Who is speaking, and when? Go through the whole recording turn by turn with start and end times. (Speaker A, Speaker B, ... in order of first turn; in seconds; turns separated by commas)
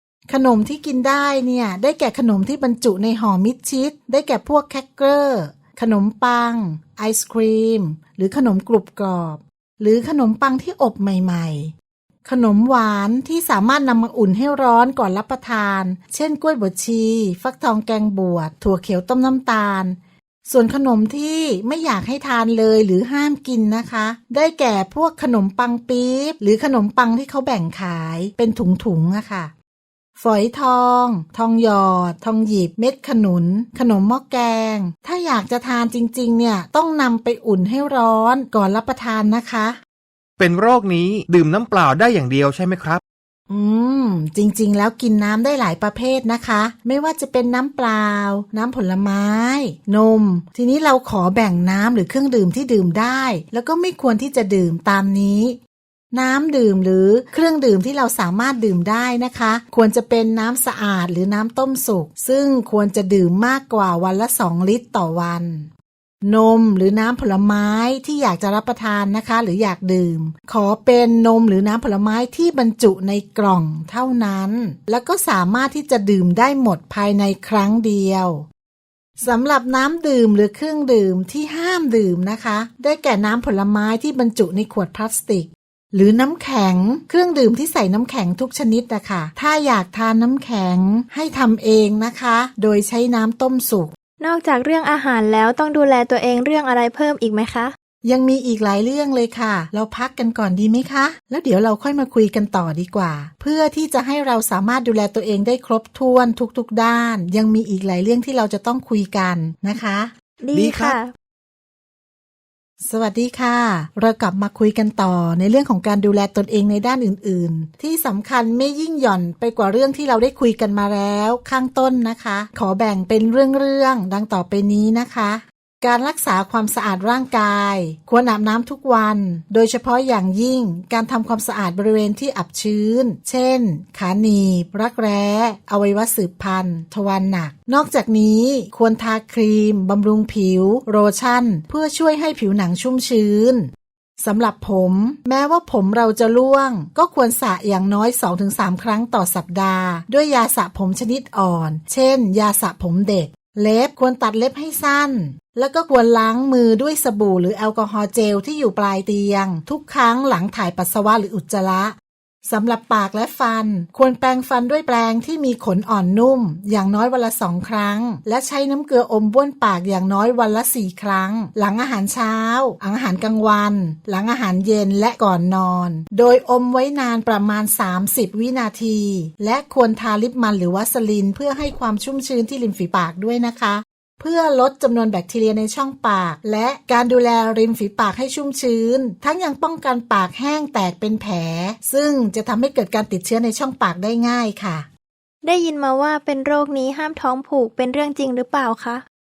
Speaker A: 0.3-29.5, Speaker A: 30.2-39.8, Speaker B: 40.4-43.0, Speaker A: 43.5-55.6, Speaker A: 56.1-65.7, Speaker A: 66.2-78.5, Speaker A: 79.2-93.9, Speaker C: 94.2-97.7, Speaker A: 98.0-110.1, Speaker C: 110.4-111.1, Speaker B: 110.6-111.0, Speaker A: 112.8-143.7, Speaker A: 144.2-194.9, Speaker C: 195.4-199.0